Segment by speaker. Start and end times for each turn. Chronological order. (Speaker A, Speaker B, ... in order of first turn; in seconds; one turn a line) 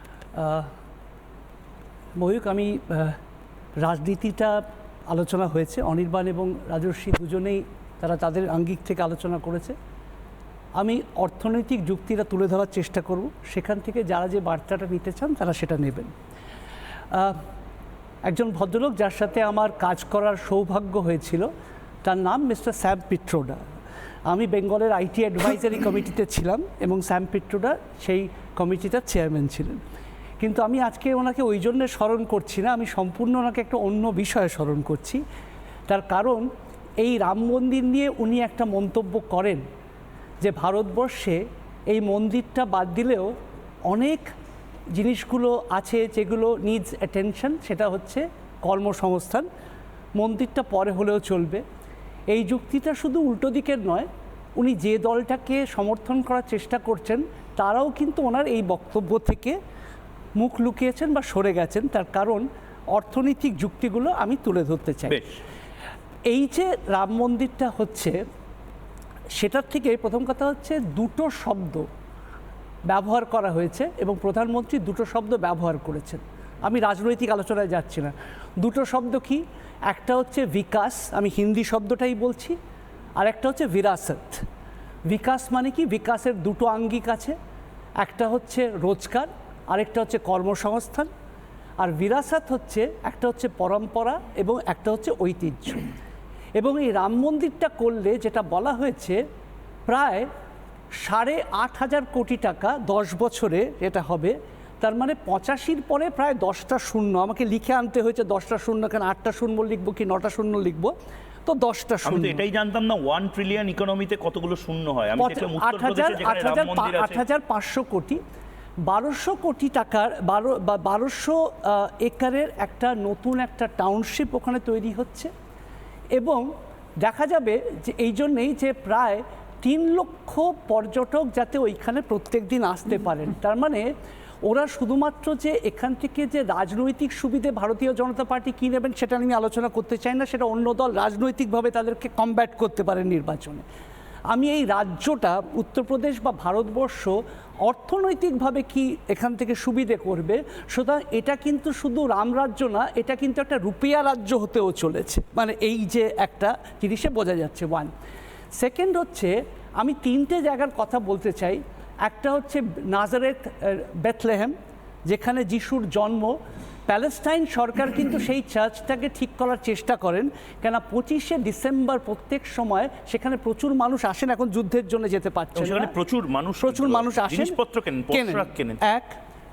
Speaker A: 0.3-0.7
Speaker A: 2.2-3.2
Speaker A: 3.8-4.6
Speaker A: 5.1-9.7
Speaker A: 10.8-16.1
Speaker A: 17.1-17.4
Speaker A: 18.2-21.5
Speaker A: 22.0-23.6
Speaker A: 24.3-29.8
Speaker A: 30.4-35.2
Speaker A: 35.9-36.4
Speaker A: 37.0-39.6
Speaker A: 40.4-43.3
Speaker A: 43.9-44.3
Speaker A: 44.9-49.5
Speaker A: 50.2-51.6
Speaker A: 52.3-59.6
Speaker A: 60.4-65.2
Speaker B: 65.1-65.4
Speaker A: 66.3-68.2
Speaker A: 69.3-71.8
Speaker A: 72.9-82.5
Speaker A: 83.2-84.4
Speaker A: 85.1-87.3
Speaker A: 88.0-91.1
Speaker A: 91.8-95.9
Speaker A: 96.6-99.2
Speaker A: 99.9-100.3
Speaker A: 101.0-110.9
Speaker A: 111.5-112.4
Speaker B: 112.0-117.2
Speaker A: 115.2-118.2
Speaker A: 118.9-125.3
Speaker A: 126.2-126.5
Speaker A: 127.0-133.9
Speaker A: 134.4-143.6
Speaker A: 144.3-157.9
Speaker A: 158.6-164.5
Speaker A: 165.1-166.4
Speaker A: 166.9-175.9
Speaker B: 175.6-178.8
Speaker A: 176.6-177.6
Speaker A: 178.1-179.2